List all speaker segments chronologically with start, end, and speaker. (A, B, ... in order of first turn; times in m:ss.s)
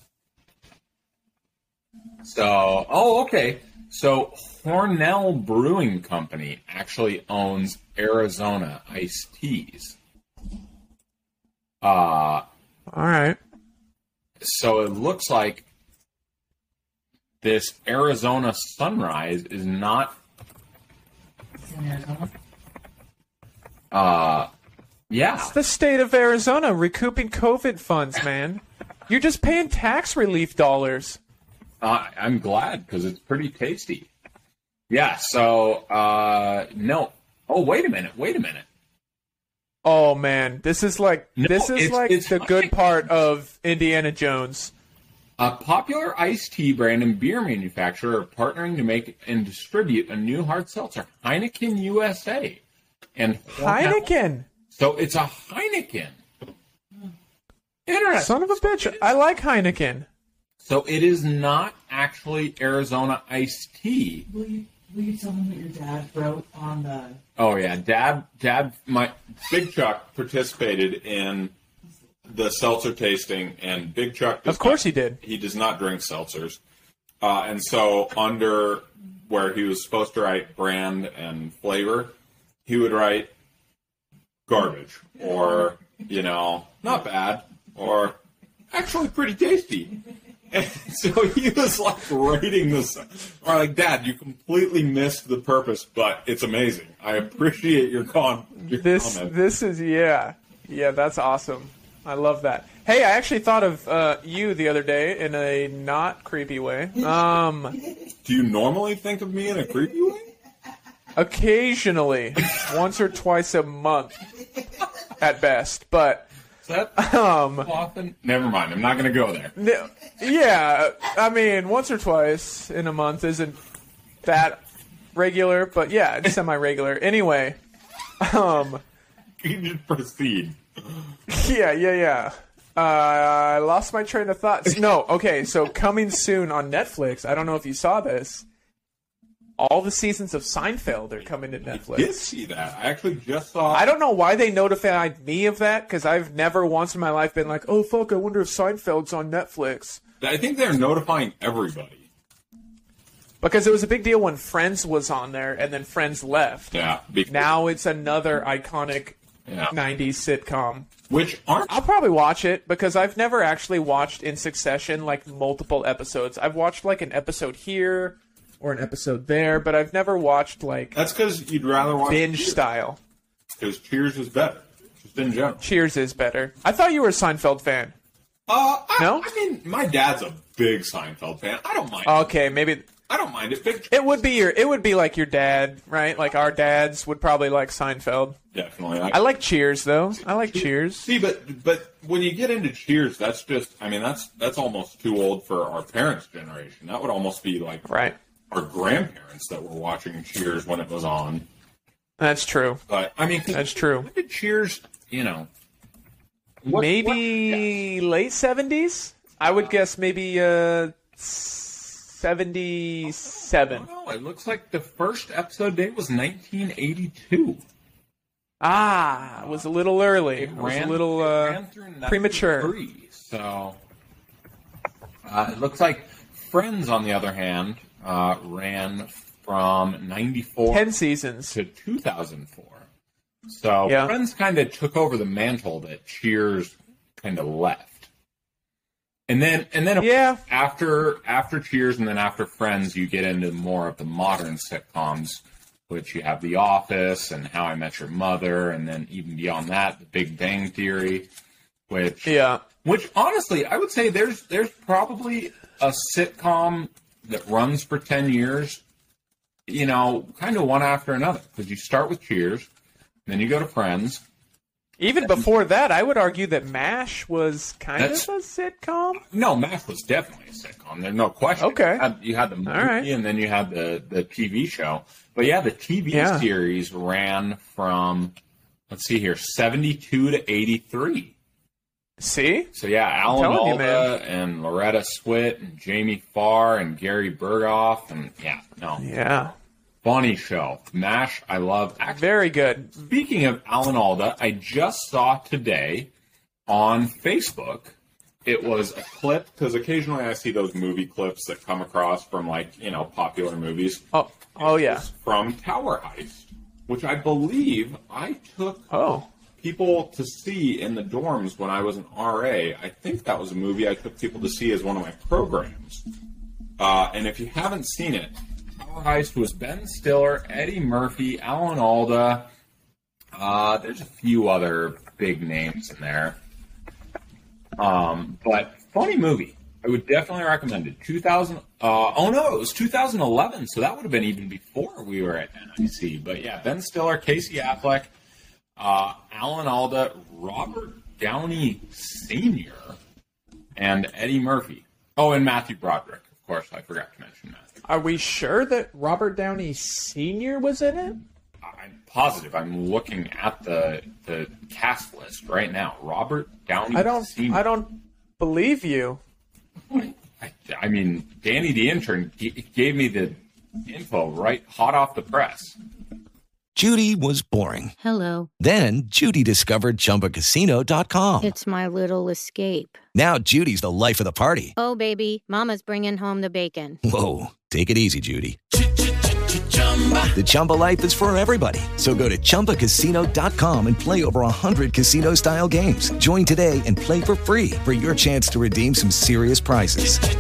0:02.2-0:10.0 A
0:11.8-0:12.4 A
0:12.9-0:13.4 B
0:14.4-0:15.6 A
0:17.4-0:20.2 A
0:21.6-0:22.3 C
0:23.9-0:24.5 A
0:25.1-0:25.6 A
0:25.4-0:31.2 B
0:31.8-0:34.1 A
0:34.9-0:38.6 A
0:39.8-0:44.7 B
0:41.4-0:43.0 A
0:45.4-0:52.6 A
0:53.2-0:54.1 A
0:53.5-0:54.5 B
0:54.7-0:56.2 A
0:57.9-0:59.2 A
0:58.1-1:00.1 B
1:00.6-1:04.3 A
1:04.3-1:07.2 C
1:07.4-1:11.5 A
1:12.2-1:16.6 A
1:14.5-1:15.2 B
1:17.2-1:22.1 A
1:22.6-1:23.3 A
1:24.5-1:28.2 A
1:28.7-1:30.0 A
1:30.5-1:39.4 A
1:38.7-1:47.8 B
1:48.2-1:50.3 A
1:51.2-1:54.2 B
1:55.2-1:56.3 B
1:56.6-1:59.5 A
1:57.0-1:57.7 B
1:59.6-2:03.6 B
2:04.2-2:04.6 B
2:05.1-2:07.6 B
2:08.2-2:08.8 B
2:09.4-2:11.0 A
2:11.3-2:18.4 B
2:19.6-2:22.2 B
2:21.7-2:23.9 A
2:23.7-2:30.0 B
2:30.2-2:32.1 A
2:33.4-2:36.7 B
2:36.7-2:37.5 A
2:37.3-2:39.2 B
2:39.4-2:39.7 A
2:39.7-2:40.9 B
2:41.1-2:41.8 A
2:41.7-2:51.0 B
2:50.9-2:52.6 A
2:52.1-2:53.0 B
2:53.6-2:55.6 A
2:55.6-2:57.9 B
2:58.5-3:02.4 A
2:59.0-2:59.3 B
3:02.0-3:02.9 B
3:03.1-3:04.2 A
3:03.9-3:08.4 B
3:08.5-3:09.3 A
3:09.1-3:11.1 B
3:10.2-3:17.8 A
3:17.8-3:18.2 B
3:18.5-3:21.5 A
3:22.2-3:22.8 B
3:22.9-3:25.5 A
3:23.5-3:24.1 B
3:26.6-3:27.7 A
3:26.7-3:33.9 B
3:33.0-3:37.6 A
3:38.6-3:42.7 B
3:39.4-3:39.7 A
3:40.3-3:43.8 A
3:45.2-3:50.9 A
3:50.7-3:51.6 B
3:51.5-3:52.8 A
3:53.5-3:58.1 A
3:53.9-3:54.1 B
3:59.3-4:11.3 A
4:00.0-4:00.4 B
4:11.9-4:18.8 A
4:12.2-4:12.6 B
4:19.7-4:22.7 A
4:23.2-4:24.2 A
4:25.0-4:29.2 B
4:28.0-4:28.3 A
4:29.2-4:38.3 A
4:31.6-4:32.1 B
4:32.6-4:33.1 B
4:36.1-4:36.5 B
4:38.9-4:41.3 A
4:42.2-4:42.7 B
4:42.7-4:49.0 A
4:43.3-4:44.1 B
4:49.0-4:49.5 B
4:50.0-4:52.3 A
4:52.0-4:53.0 B
4:53.0-4:56.1 A
4:56.7-5:04.0 A
5:04.1-5:05.0 B
5:04.6-5:08.9 A
5:08.9-5:09.3 B
5:09.6-5:16.0 A
5:16.8-5:22.5 A
5:23.3-5:26.4 A
5:27.8-5:38.1 A
5:38.8-5:43.0 A
5:43.8-5:47.7 A
5:47.8-5:51.2 B
5:51.6-5:57.7 A
5:56.9-5:59.2 B
5:59.9-6:05.8 A
6:06.7-6:07.9 D
6:08.0-6:08.5 E
6:08.6-6:11.5 D
6:11.4-6:13.0 E
6:13.1-6:14.7 D
6:14.8-6:17.0 E
6:17.0-6:18.6 D
6:20.2-6:30.2 D